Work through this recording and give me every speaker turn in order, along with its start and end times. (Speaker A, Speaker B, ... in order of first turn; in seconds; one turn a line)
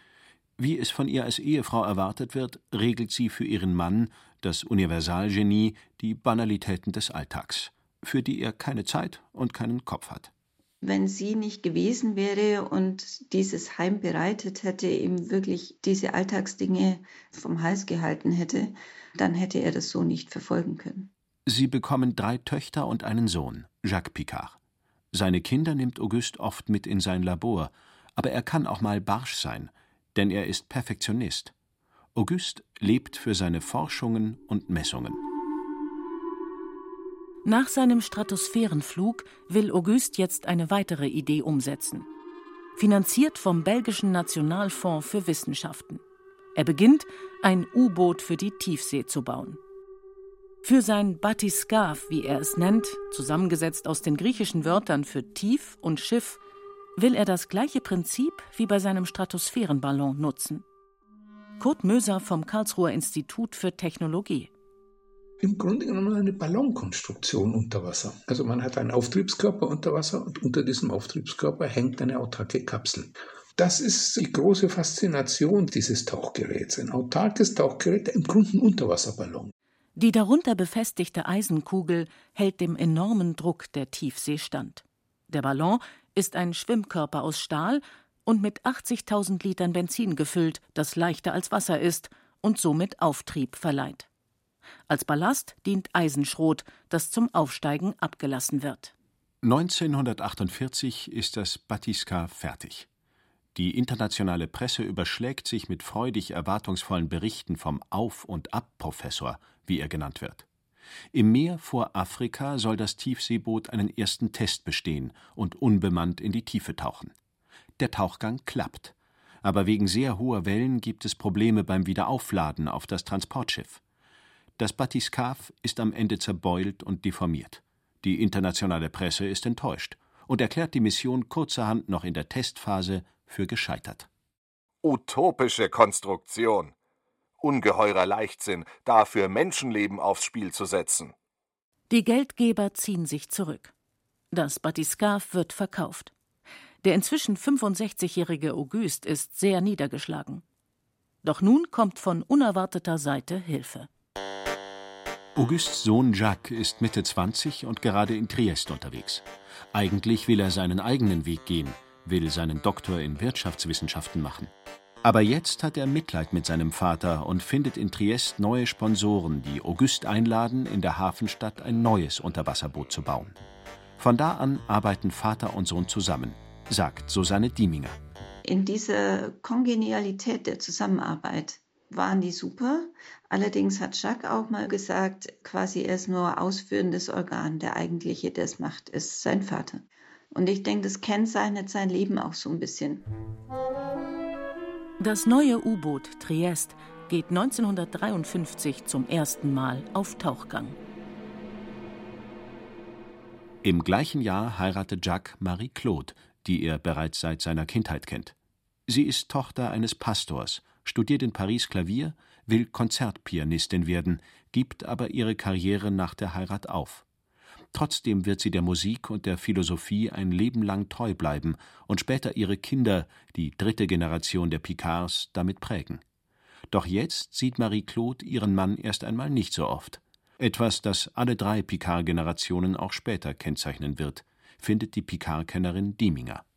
Speaker A: 0.6-10.3
Speaker B: 10.8-21.1
Speaker A: 21.4-24.6
Speaker A: 25.1-31.5
Speaker A: 32.1-35.2
Speaker C: 37.4-42.1
Speaker C: 42.8-46.0
Speaker C: 46.5-49.6
Speaker C: 50.6-56.4
Speaker C: 57.0-60.6
Speaker C: 61.6-64.5
Speaker D: 65.4-79.5
Speaker C: 80.0-94.1
Speaker C: 94.9-98.9
Speaker A: 99.4-102.9
Speaker A: 103.5-110.5
Speaker A: 111.1-117.1
Speaker A: 117.8-123.8
Speaker A: 124.6-134.1
Speaker E: 134.8-136.7
Speaker E: 137.4-141.1
Speaker C: 141.9-143.7
Speaker C: 144.3-146.1
Speaker C: 146.8-150.4
Speaker C: 151.2-153.9
Speaker A: 155.4-164.5
Speaker A: 165.0-173.3
Speaker A: 174.0-178.0
Speaker B: 178.4-193.1
Speaker C: 195.0-200.8
Speaker A: 203.6-208.3
Speaker A: 208.9-217.0
Speaker A: 217.7-226.0
Speaker A: 226.7-236.4